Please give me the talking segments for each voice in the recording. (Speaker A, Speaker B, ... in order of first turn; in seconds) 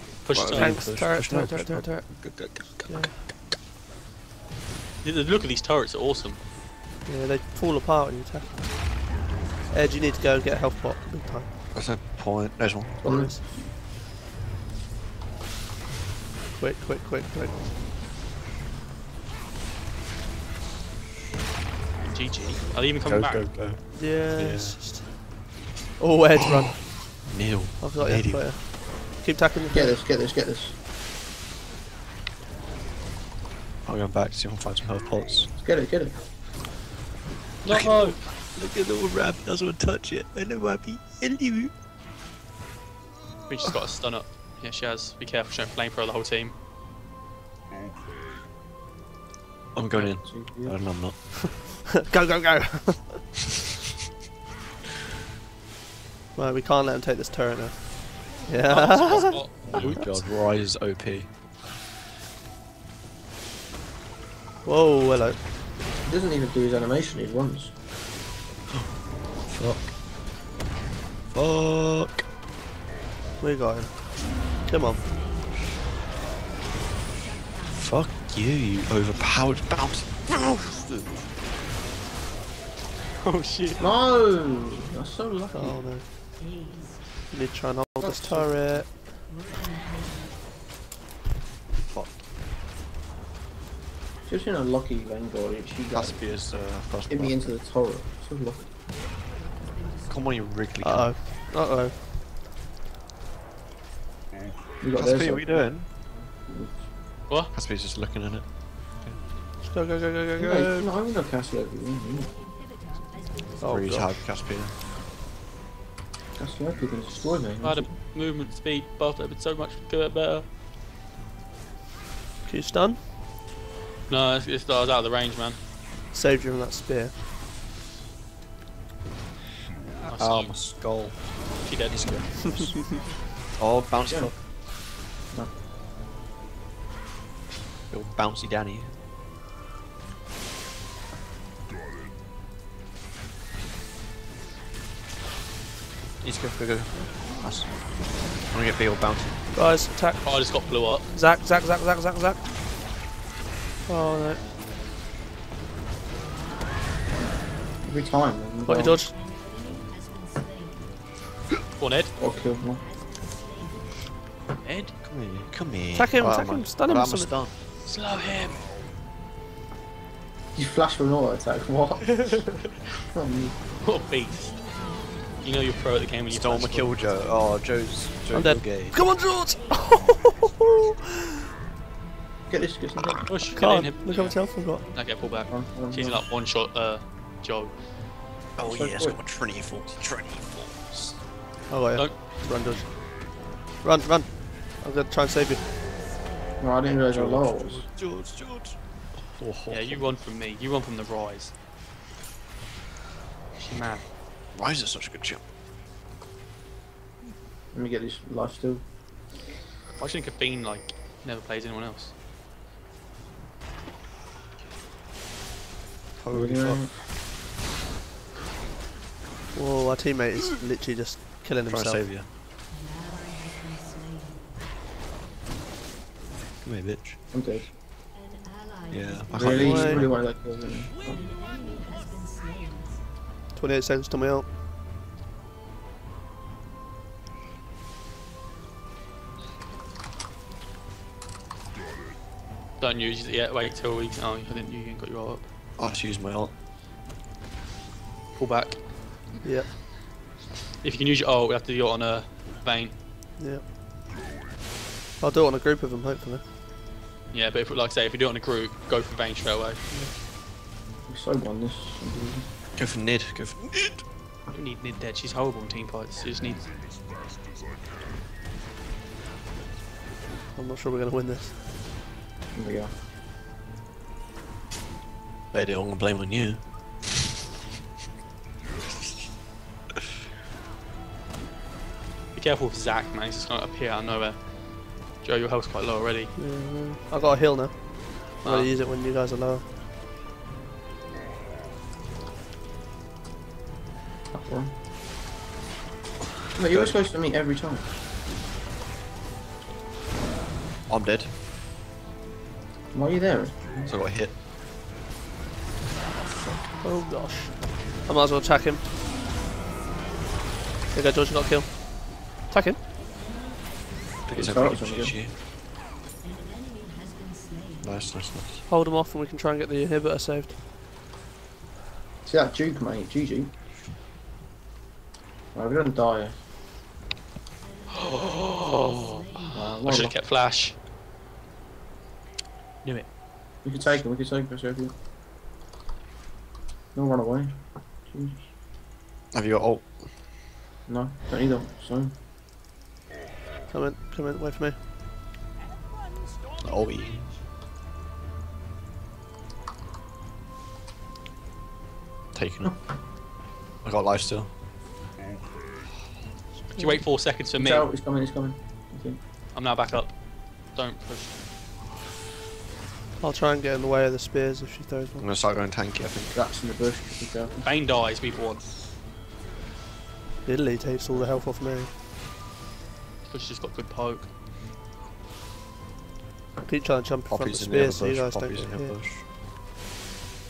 Speaker A: 0.2-0.8, 5.0-6.4, 22.1-23.5, 37.6-38.2, 43.5-46.5, 58.7-60.2, 83.2-83.8, 117.6-120.5, 124.1-125.6, 130.0-130.6, 131.6-132.3, 150.2-151.1, 161.8-162.1, 164.6-164.9, 167.8-168.7, 172.1-172.7, 173.8-174.6, 175.4-177.0, 183.2-187.7, 199.7-201.5, 203.6-204.0, 210.0-212.1, 242.8-245.4, 248.3-248.8, 250.8-252.9, 257.3-259.8, 264.5-266.7, 282.3-284.5, 285.1-286.3, 288.4-288.7, 327.9-330.7, 356.8-357.9, 359.5-360.1, 360.7-361.3, 367.6-368.6, 373.2-374.3
Speaker B: 0.3-3.3, 11.7-13.0, 23.0-24.8, 27.2-28.5, 33.8-35.5, 37.7-41.7, 49.7-51.3, 59.7-61.3, 69.5-69.9, 71.3-72.2, 77.7-80.7, 95.9-97.5, 100.0-101.1, 105.0-105.9, 107.5-108.5, 110.4-110.9, 113.6-114.7, 130.2-133.0, 133.5-134.3, 137.9-138.9, 146.2-147.8, 148.5-149.3, 165.0-167.5, 176.3-179.0, 188.6-191.2, 197.0-200.1, 204.5-205.4, 216.2-216.8, 221.7-222.3, 226.6-227.2, 228.9-230.2, 245.8-246.5, 262.8-264.0, 275.5-276.6, 296.7-297.0, 300.9-301.3, 303.9-304.3, 306.1-306.6, 314.2-315.3, 317.8-318.6, 339.3-339.9, 346.6-347.3, 352.3-352.7, 353.8-354.5, 365.2-366.4, 377.3-379.2
Speaker C: 0.3-2.1, 2.9-3.2, 7.0-8.7, 9.7-11.5, 13.0-13.4, 16.6-17.6, 23.9-25.1, 26.0-27.1, 27.8-30.0, 51.6-53.3, 56.4-59.9, 64.6-65.4, 73.4-74.0, 74.6-75.0, 85.5-86.0, 87.3-88.9, 100.8-101.9, 109.7-110.7, 113.6-114.1, 122.5-123.0, 126.1-127.1, 149.5-150.2, 151.1-152.4, 153.9-154.4, 158.7-159.1, 165.9-167.3, 178.3-181.5, 183.6-184.8, 191.7-193.0, 193.8-195.6, 219.5-222.0, 229.4-230.0, 233.5-234.5, 249.4-249.7, 253.4-253.6, 255.2-256.4, 270.5-271.5, 286.4-289.6, 306.8-308.8, 310.9-312.8, 318.7-320.5, 343.7-344.8, 356.7-357.0, 363.2-365.3, 370.4-371.9, 376.6-379.0
Speaker D: 13.0-13.7, 29.7-30.8, 35.5-36.1, 50.0-50.8, 66.0-67.7, 83.8-85.8, 88.0-88.5, 94.2-96.4, 97.1-98.7, 104.8-105.8, 106.3-106.9, 110.4-112.4, 116.4-118.0, 134.1-134.4, 157.8-159.0, 162.2-162.9, 170.6-172.5, 173.1-173.6, 182.5-183.3, 185.5-186.2, 188.6-189.2, 196.6-197.8, 207.7-208.8, 216.3-216.9, 227.3-227.7, 229.3-231.3, 261.1-262.5, 272.5-272.9, 294.3-294.7, 296.5-298.0, 302.9-303.9, 314.3-315.2, 322.2-323.5, 325.5-326.4, 329.5-330.1, 333.6-334.9, 336.9-338.5, 340.9-342.1, 357.6-359.2, 366.3-367.6